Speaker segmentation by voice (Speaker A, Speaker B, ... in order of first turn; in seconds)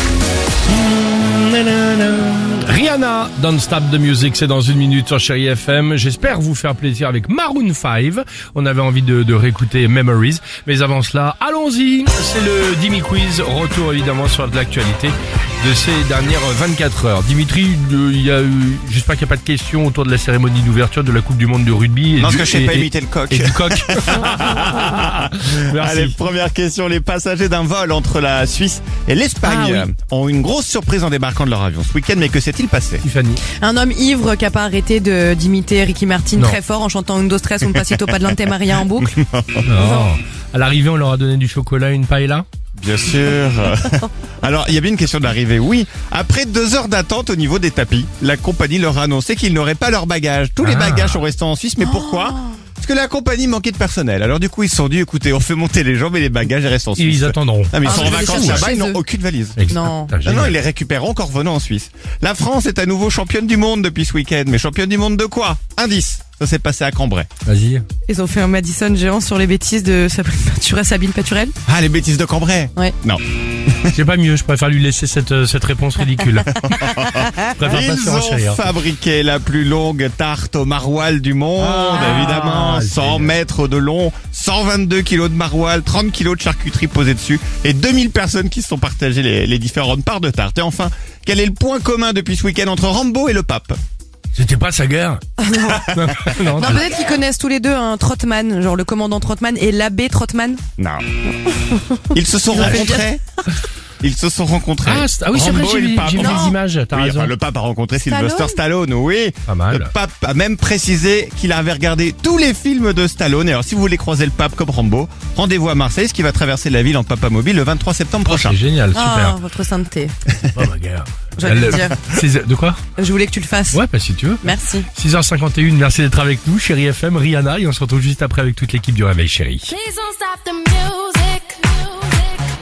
Speaker A: 0.7-26.1, 29.4-29.9, 33.0-33.4, 39.6-42.4, 50.6-51.2, 57.0-58.7, 59.6-60.6, 67.5-67.8, 73.9-76.7, 77.5-78.6, 81.6-83.3, 94.3-95.2, 95.8-96.8, 102.6-102.8, 104.8-107.3, 109.5-109.9, 118.2-119.4, 120.5-122.8, 123.7-129.8
Speaker B: 22.2-33.0, 39.0-39.7, 42.8-59.6, 60.2-67.3, 71.7-73.9, 76.5-93.8, 95.8-96.0, 100.8-101.0, 102.1-103.2, 104.0-118.6
Speaker C: 33.6-39.1, 39.8-40.1, 51.8-52.6, 57.8-59.0, 59.7-60.1, 68.1-71.5, 76.8-77.2, 82.0-82.3, 95.4-95.8, 96.6-100.6, 101.5-103.0, 106.2-106.5, 108.0-108.6, 118.9-120.1, 121.4-122.0, 123.0-123.8, 124.4-124.9
Speaker D: 129.8-132.1